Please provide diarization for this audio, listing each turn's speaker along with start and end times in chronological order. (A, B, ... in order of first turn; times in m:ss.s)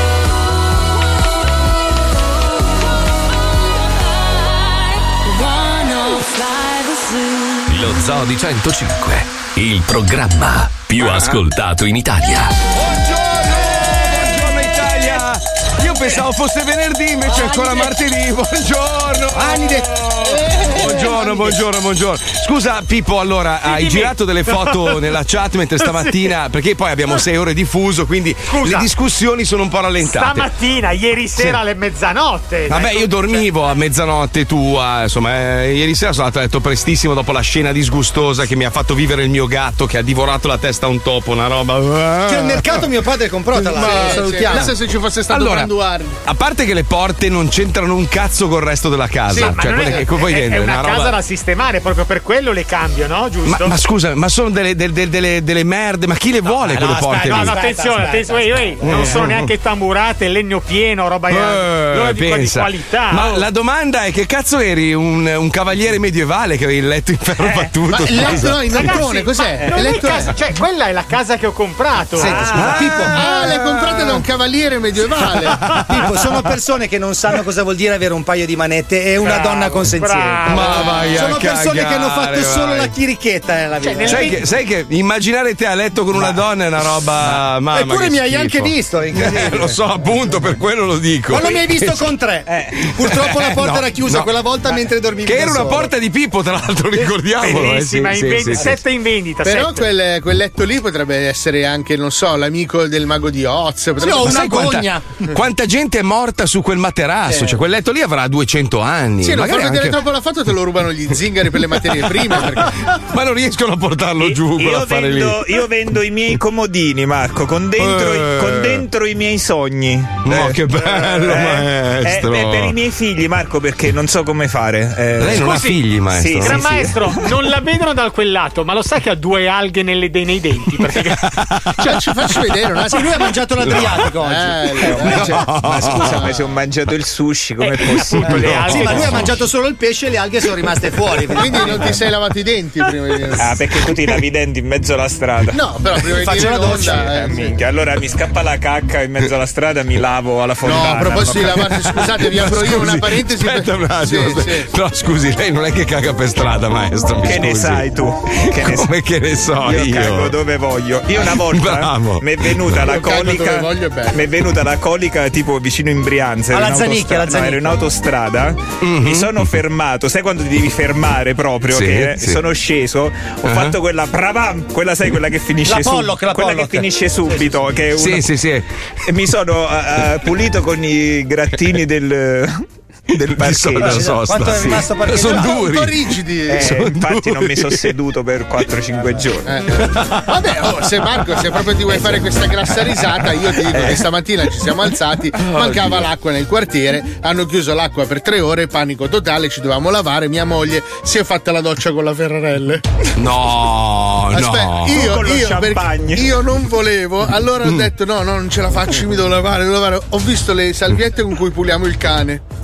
0:00.3-0:07.7 A
0:07.7-0:12.6 B
0:11.0-0:11.4 C
0:12.8-0:30.5 C
0:17.2-0:18.0 D
0:19.3-0:21.6 D
0:23.7-0:24.8 E
0:28.5-0:28.8 E
0:30.0-0:33.5 E
0:31.4-0:31.6 C
0:32.7-0:42.8 C
0:42.2-0:44.7 D
0:43.5-0:46.2 F
0:43.7-0:44.3 C
0:45.3-0:45.7 C
0:46.2-0:51.2 C
0:49.3-0:50.0 F
0:49.3-0:53.8 E
0:53.4-0:57.6 C
0:56.5-0:59.0 D
0:57.1-1:03.4 E
0:58.8-0:59.5 C
1:01.3-1:09.0 C
1:07.4-1:07.7 G
1:07.9-1:10.3 F
1:08.8-1:12.9 E
1:09.6-1:10.0 G
1:12.1-1:13.4 D
1:12.5-1:14.2 C
1:13.1-1:15.6 F
1:15.2-1:16.0 C
1:15.7-1:24.4 D
1:19.2-1:21.2 E
1:20.4-1:22.9 C
1:23.8-1:24.4 E
1:24.0-1:32.1 C
1:26.1-1:26.4 D
1:27.1-1:29.8 D
1:31.3-1:35.9 D
1:32.5-1:32.8 G
1:33.0-1:34.3 C
1:35.2-1:38.8 C
1:37.4-1:39.8 E
1:39.4-1:44.5 F
1:44.0-1:45.1 D
1:44.1-1:50.0 C
1:47.2-1:47.6 D
1:49.2-1:52.8 F
1:52.3-1:55.5 C
1:54.2-2:00.6 G
1:57.8-1:58.8 C
2:00.2-2:02.7 C
2:01.1-2:07.0 G
2:05.2-2:06.9 C
2:05.4-2:05.8 E
2:06.4-2:12.0 E
2:11.1-2:11.7 C
2:11.8-2:12.9 F
2:12.8-2:15.4 D
2:13.7-2:14.0 C
2:14.2-2:15.4 F
2:14.8-2:18.9 G
2:15.0-2:16.3 C
2:16.0-2:16.4 F
2:17.6-2:19.4 E
2:18.2-2:19.3 C
2:18.4-2:21.9 D
2:21.3-2:23.6 F
2:21.6-2:21.9 G
2:23.4-2:25.6 G
2:25.5-2:27.6 F
2:26.1-2:31.6 G
2:26.3-2:27.0 D
2:30.6-2:34.7 F
2:31.5-2:40.3 C
2:37.2-2:38.9 G
2:39.6-2:58.3 G
2:41.3-2:42.8 C
2:42.8-2:44.2 F
2:46.5-2:47.8 D
2:48.8-2:49.4 C
2:51.7-2:52.4 C
2:53.5-2:53.7 C
2:55.7-2:57.7 D
2:58.0-2:58.7 C
2:59.0-3:02.6 G
3:03.1-3:06.0 C
3:03.4-3:04.8 G
3:03.8-3:05.8 D
3:05.2-3:06.7 F
3:06.5-3:09.6 G
3:06.6-3:07.9 C
3:09.4-3:22.8 F
3:09.9-3:10.3 C
3:11.9-3:12.2 G
3:15.4-3:16.0 C
3:23.2-3:25.0 C
3:24.3-3:32.4 F
3:24.9-3:26.2 G